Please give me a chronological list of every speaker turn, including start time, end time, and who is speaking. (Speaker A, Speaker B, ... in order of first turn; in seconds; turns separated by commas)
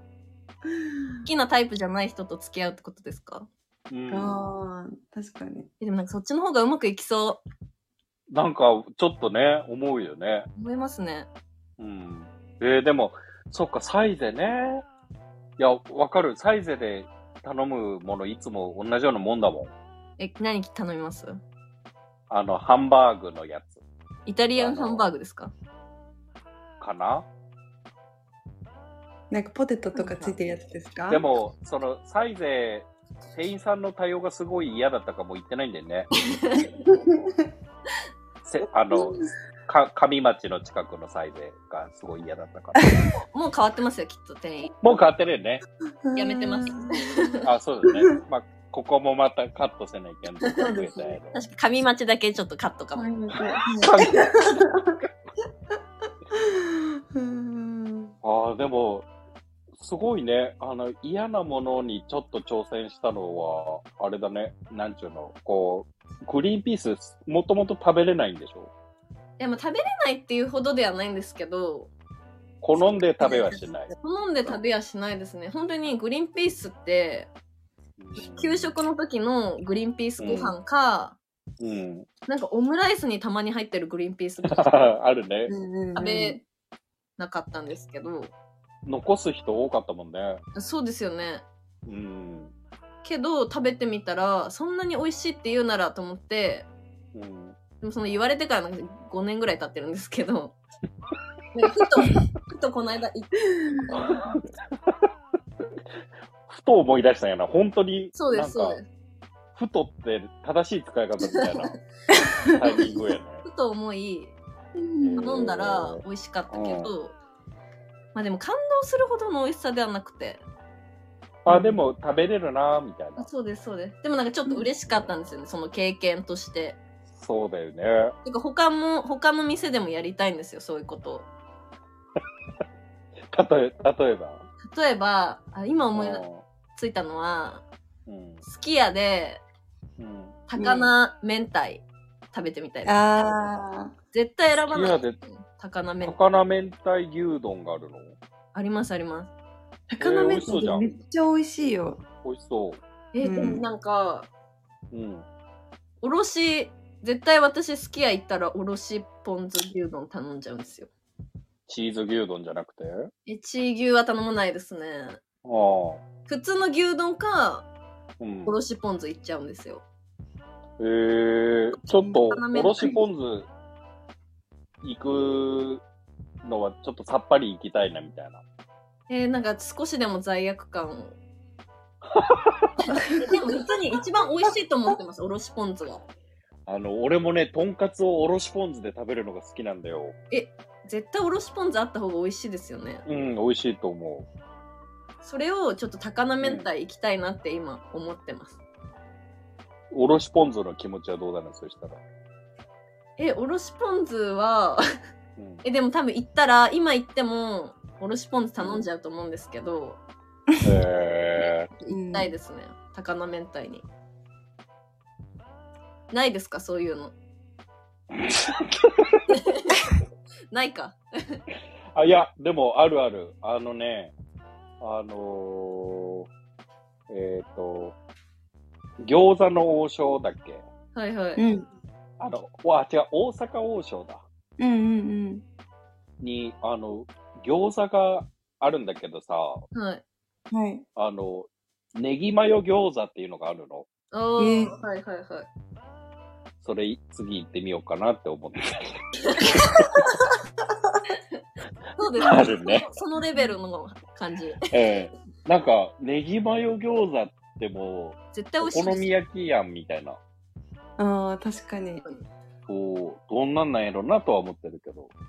Speaker A: 1.2-3.5, Speaker B: 3.9-4.4, Speaker C: 4.1-5.7, Speaker A: 5.8-7.4, Speaker B: 8.3-10.5, Speaker A: 10.6-11.3, Speaker B: 11.8-14.8, Speaker B: 15.6-19.7, Speaker A: 20.2-21.4, Speaker B: 22.3-23.8, Speaker A: 24.2-25.5, Speaker B: 24.6-25.1, Speaker B: 26.8-27.3, Speaker C: 29.3-31.2, Speaker A: 29.9-30.4, Speaker B: 31.1-36.1, Speaker A: 36.2-36.7, Speaker C: 36.8-37.5, Speaker B: 38.4-42.9, Speaker C: 38.9-39.3, Speaker C: 42.8-43.0, Speaker A: 43.3-44.7, Speaker B: 44.8-45.6, Speaker C: 46.0-47.2, Speaker A: 46.1-47.4, Speaker B: 47.4-51.4, Speaker A: 50.4-53.1, Speaker C: 53.0-55.0, Speaker B: 53.8-54.6, Speaker A: 53.8-54.3, Speaker C: 56.3-58.1, Speaker B: 58.2-59.1, Speaker B: 59.8-68.7, Speaker A: 69.4-71.9, Speaker B: 72.6-73.9, Speaker A: 72.8-77.3, Speaker B: 78.0-78.7, Speaker A: 78.2-81.2, Speaker B: 80.2-80.5, Speaker B: 81.6-82.1, Speaker A: 82.3-84.8, Speaker B: 84.5-85.5, Speaker C: 85.5-86.4, Speaker A: 85.9-86.4, Speaker A: 87.2-88.3, Speaker B: 88.8-90.4, Speaker A: 90.5-91.5, Speaker B: 91.8-92.5, Speaker A: 93.0-96.7, Speaker B: 97.1-97.5, Speaker A: 97.8-100.6, Speaker A: 101.5-104.1, Speaker B: 103.9-104.9, Speaker B: 106.5-108.8, Speaker A: 108.1-108.8, Speaker B: 109.5-111.8, Speaker A: 111.3-111.8, Speaker C: 112.1-112.6, Speaker B: 112.5-113.4, Speaker A: 113.4-114.3, Speaker C: 114.8-115.3, Speaker B: 115.0-116.9, Speaker A: 115.2-117.2, Speaker A: 118.1-120.4, Speaker B: 121.4-123.3, Speaker C: 121.5-121.8, Speaker A: 123.2-126.8, Speaker B: 127.1-128.1, Speaker A: 128.2-131.3, Speaker B: 133.3-134.4, Speaker A: 134.6-136.2, Speaker B: 135.9-136.4, Speaker A: 136.7-137.6, Speaker B: 138.1-138.4, Speaker A: 138.4-139.4, Speaker B: 140.0-140.4, Speaker A: 140.5-143.3, Speaker C: 140.6-140.9, Speaker C: 142.8-143.9, Speaker A: 144.1-146.2, Speaker B: 144.7-145.2, Speaker B: 146.0-148.2, Speaker A: 148.5-149.3, Speaker C: 149.9-152.0, Speaker B: 150.0-150.9, Speaker B: 152.2-152.8, Speaker A: 153.1-154.3, Speaker C: 153.2-153.6, Speaker B: 154.9-155.2, Speaker A: 156.0-160.9, Speaker B: 161.7-163.1, Speaker A: 163.3-165.2, Speaker B: 165.4-166.0, Speaker A: 166.2-167.7, Speaker B: 168.2-168.6, Speaker A: 168.4-169.8, Speaker B: 170.8-173.5, Speaker A: 172.2-173.0, Speaker B: 174.8-175.8, Speaker B: 176.4-178.4, Speaker A: 179.1-181.2, Speaker B: 182.1-182.7, Speaker C: 183.0-183.2, Speaker A: 183.2-186.0, Speaker B: 186.7-190.2, Speaker A: 190.3-193.0, Speaker B: 193.1-194.3, Speaker A: 195.2-198.6, Speaker B: 196.4-196.7, Speaker B: 199.9-202.0, Speaker A: 203.2-204.8, Speaker B: 205.4-205.6, Speaker A: 205.6-210.0, Speaker B: 208.6-208.8, Speaker B: 210.6-211.7, Speaker A: 211.4-213.8, Speaker C: 211.9-212.3, Speaker A: 216.1-217.1, Speaker B: 218.1-219.2, Speaker A: 219.3-219.9, Speaker A: 220.5-221.4, Speaker B: 221.9-224.1, Speaker B: 224.8-226.2, Speaker B: 227.1-227.9, Speaker B: 229.0-230.6, Speaker A: 230.9-231.4, Speaker C: 231.4-231.7, Speaker B: 232.2-234.2, Speaker C: 234.6-235.4, Speaker B: 236.2-239.6, Speaker A: 239.7-240.0, Speaker C: 240.5-240.8, Speaker B: 240.9-243.9, Speaker A: 244.1-245.5, Speaker C: 244.4-244.7, Speaker B: 246.6-248.7, Speaker A: 249.2-250.1, Speaker B: 249.5-250.0, Speaker A: 251.9-254.6, Speaker B: 252.2-252.9, Speaker B: 254.7-260.2, Speaker A: 258.3-259.1, Speaker C: 261.0-262.0, Speaker B: 262.7-265.1